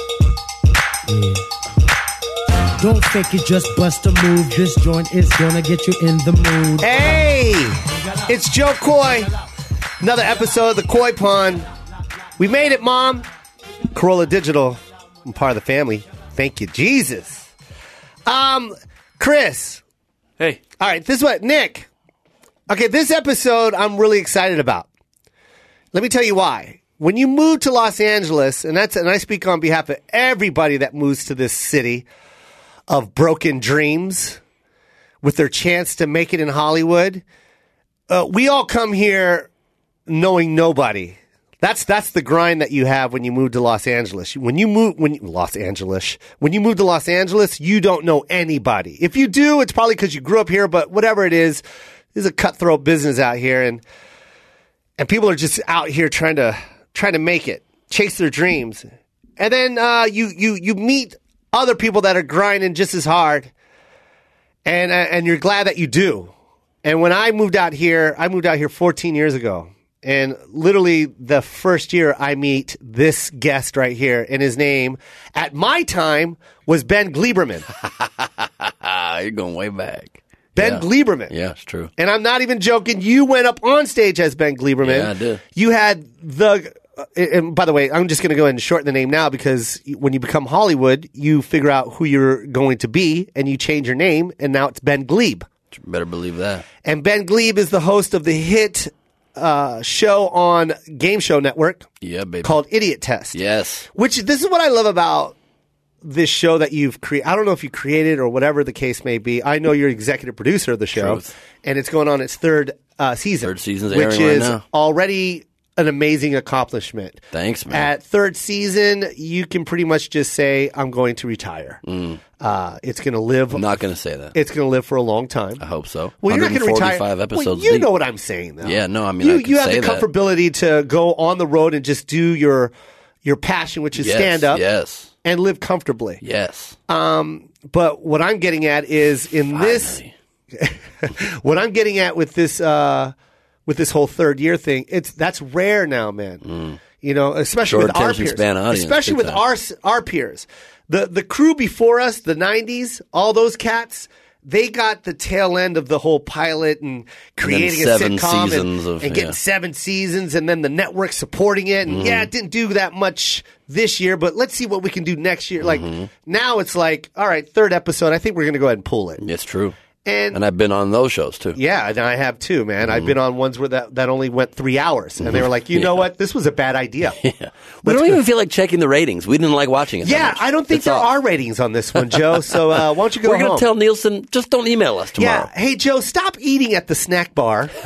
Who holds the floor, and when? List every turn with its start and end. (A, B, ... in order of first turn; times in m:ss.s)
0:01.1-0:01.4 A
0:02.8-0:07.1 A
0:06.8-0:09.3 B
0:10.0-0:11.7 B
0:12.4-0:13.2 B
0:13.9-0:17.5 B
0:18.3-0:19.8 B
0:20.8-0:21.9 B
0:22.7-0:24.9 B
0:25.9-0:32.1 B
0:32.9-0:34.4 B
0:35.2-0:37.2 B
0:38.1-0:39.5 B
0:40.1-0:51.6 B
0:52.2-0:53.8 B
0:55.0-0:58.8 B
0:59.4-1:03.5 B
1:04.6-1:06.3 B
1:06.8-1:17.7 B
1:17.8-1:21.9 C
1:20.6-1:21.3 B
1:22.0-1:35.5 B
1:24.8-1:25.4 C
1:35.7-1:36.6 C
1:36.8-1:41.9 B
1:42.0-1:42.6 C
1:42.4-1:43.4 B
1:43.3-1:43.9 C
1:43.9-1:45.4 B
1:46.0-2:01.8 B
1:51.0-1:51.3 C
1:53.4-1:54.6 C
1:57.3-1:57.9 C
2:01.9-2:02.2 C
2:02.4-2:03.7 B
2:03.5-2:04.4 C
2:04.4-2:05.6 B
2:05.6-2:07.9 C
2:06.2-2:12.7 B
2:08.6-2:10.1 C
2:13.2-2:14.6 B
2:14.0-2:15.1 C
2:15.2-2:16.2 B
2:16.2-2:16.8 C
2:16.9-2:20.0 B
2:19.5-2:20.1 C
2:20.5-2:23.1 B
2:23.7-2:26.4 B
2:26.4-2:26.8 C
2:27.0-2:49.2 B
2:27.6-2:29.4 C
2:37.4-2:39.4 C
2:41.9-2:42.3 C
2:45.6-2:46.1 C
2:49.2-2:49.8 C
2:50.0-2:50.4 B
2:50.3-2:51.6 C
2:51.6-2:57.2 B
2:55.2-2:56.0 C
2:57.2-3:01.1 C
2:57.8-2:58.2 B
3:00.0-3:03.7 B
3:02.7-3:05.5 C
3:05.2-3:07.7 B